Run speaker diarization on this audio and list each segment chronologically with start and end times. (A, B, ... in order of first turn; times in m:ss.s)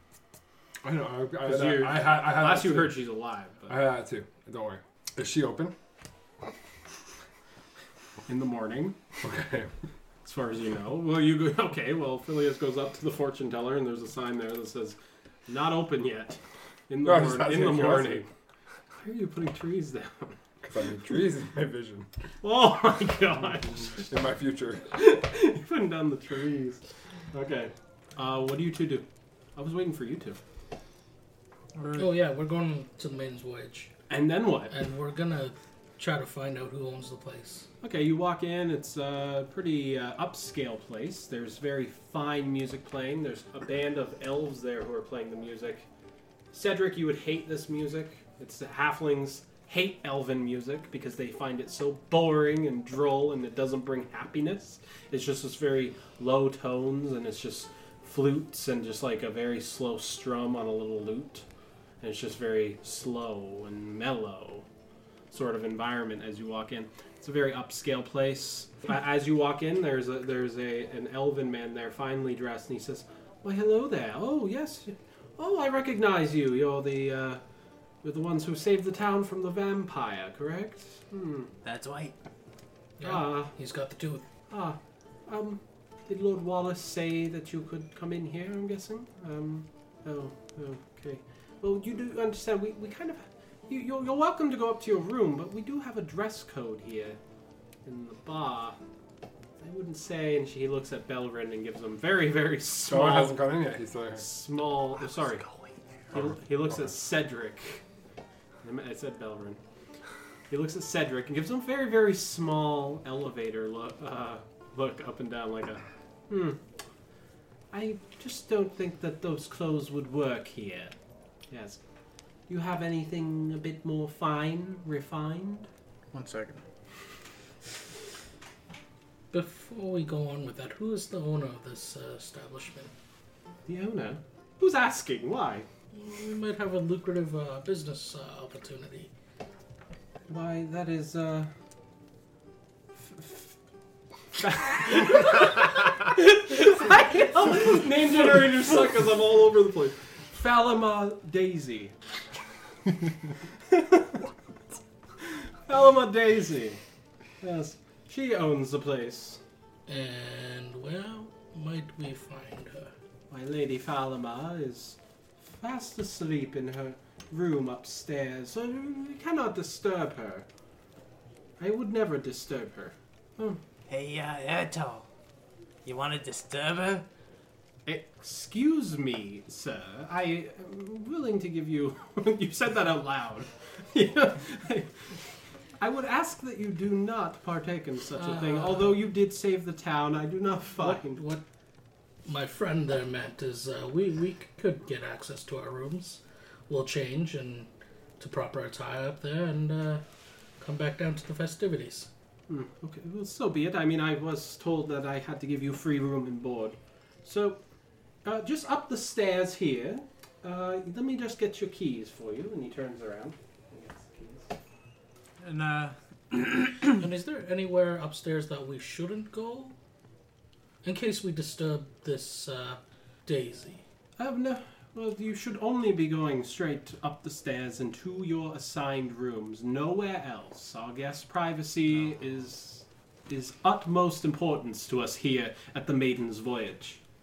0:00.8-0:03.0 A
0:01.4-0:03.8 B
0:03.7-0:05.7 A
0:08.3-0:09.0 B
0:09.2-0:09.7 A
0:10.2-0:15.0 B
0:15.5-0:18.3 B
0:17.0-0:18.2 A
0:19.0-0:20.4 B
0:20.6-0:22.1 A
0:22.4-0:24.0 B
0:24.0-0:24.9 A
0:24.9-0:30.4 B
0:31.7-0:32.2 C
0:31.9-0:33.9 D
0:34.1-0:34.7 B
0:34.7-0:37.7 D
0:37.8-0:45.8 B
0:46.5-1:01.4 B
1:02.0-1:04.6 B
1:05.3-1:17.4 B
1:18.0-1:21.5 B
1:21.6-1:22.1 E
1:23.0-1:24.2 D
1:23.0-1:23.5 B
1:24.5-1:37.2 B
1:37.8-1:38.8 B
1:39.6-1:43.6 B
1:42.8-1:44.2 A
1:44.2-1:45.4 B
1:46.1-1:47.8 B
1:48.6-1:49.6 B
1:50.5-1:56.6 B
1:57.7-2:01.0 B
2:01.5-2:01.8 B
2:02.5-2:05.7 B
2:06.1-2:06.6 C
2:09.3-2:12.9 D
2:13.7-2:15.7 B
2:15.9-2:19.1 D
2:20.3-2:21.5 B
2:23.0-2:23.5 B
2:24.4-2:31.9 B
2:33.7-2:34.2 B
2:35.6-2:36.8 B
2:37.4-2:39.4 B
2:39.9-2:42.9 D
2:43.3-2:50.4 B
2:51.6-2:53.6 B
2:53.9-2:55.0 E
2:55.8-2:57.0 E
2:57.8-3:04.9 B
3:05.8-3:11.2 B
3:08.1-3:09.0 D
3:10.8-3:11.4 D
3:12.2-3:17.7 D
3:18.2-3:20.0 D
3:20.6-3:22.1 D
3:22.5-3:27.6 B
3:28.2-3:34.5 B
3:35.4-3:36.6 C
3:36.9-3:39.7 D
3:40.8-3:43.8 D
3:44.2-3:57.0 B